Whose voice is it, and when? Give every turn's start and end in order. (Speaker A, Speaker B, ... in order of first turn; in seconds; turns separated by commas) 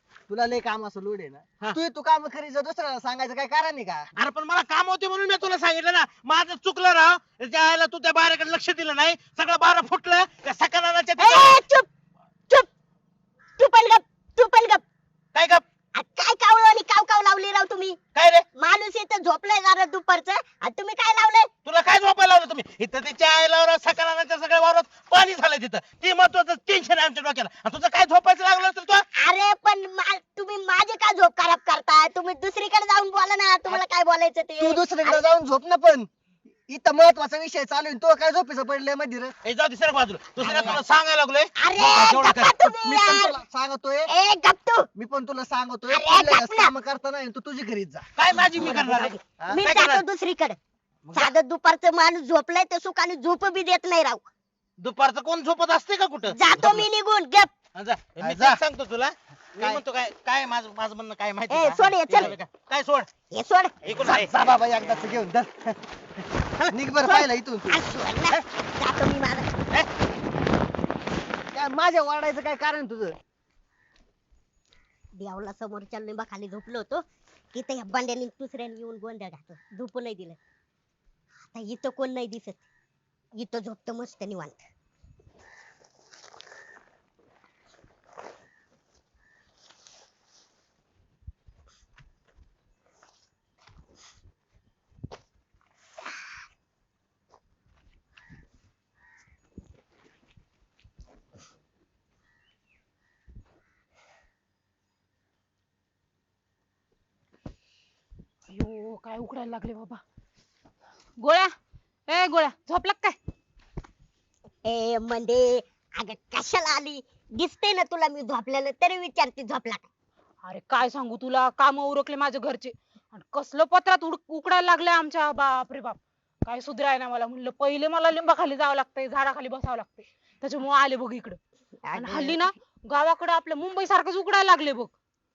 Speaker A: 0.3-4.1, Speaker B: 4.2-11.6, Speaker C: 11.2-11.9, Speaker C: 13.6-14.8, Speaker B: 15.3-15.6, Speaker C: 15.9-18.0, Speaker B: 18.1-18.4, Speaker C: 18.6-21.5, Speaker B: 21.6-29.0, Speaker C: 29.1-35.2, Speaker A: 34.6-36.1, Speaker A: 36.7-39.3, Speaker B: 39.4-42.5, Speaker C: 40.4-40.8, Speaker C: 41.6-43.4, Speaker A: 42.6-44.1, Speaker C: 44.1-44.9, Speaker A: 44.9-48.1, Speaker C: 45.9-46.7, Speaker B: 48.1-50.0, Speaker C: 48.5-50.6, Speaker C: 51.1-54.2, Speaker B: 54.8-56.9, Speaker C: 56.3-57.5, Speaker B: 57.7-63.1, Speaker A: 58.2-58.6, Speaker C: 61.5-62.4, Speaker C: 63.3-63.7, Speaker B: 63.8-64.4, Speaker A: 64.0-65.8, Speaker B: 66.6-67.3, Speaker A: 66.7-67.8, Speaker C: 67.7-69.5, Speaker A: 71.5-73.2, Speaker C: 75.1-80.4, Speaker C: 81.4-82.6, Speaker C: 83.4-84.6, Speaker D: 108.5-110.0, Speaker D: 111.2-111.5, Speaker D: 112.1-113.2, Speaker C: 114.6-119.9, Speaker D: 120.5-131.4, Speaker C: 131.8-132.5, Speaker D: 131.9-134.9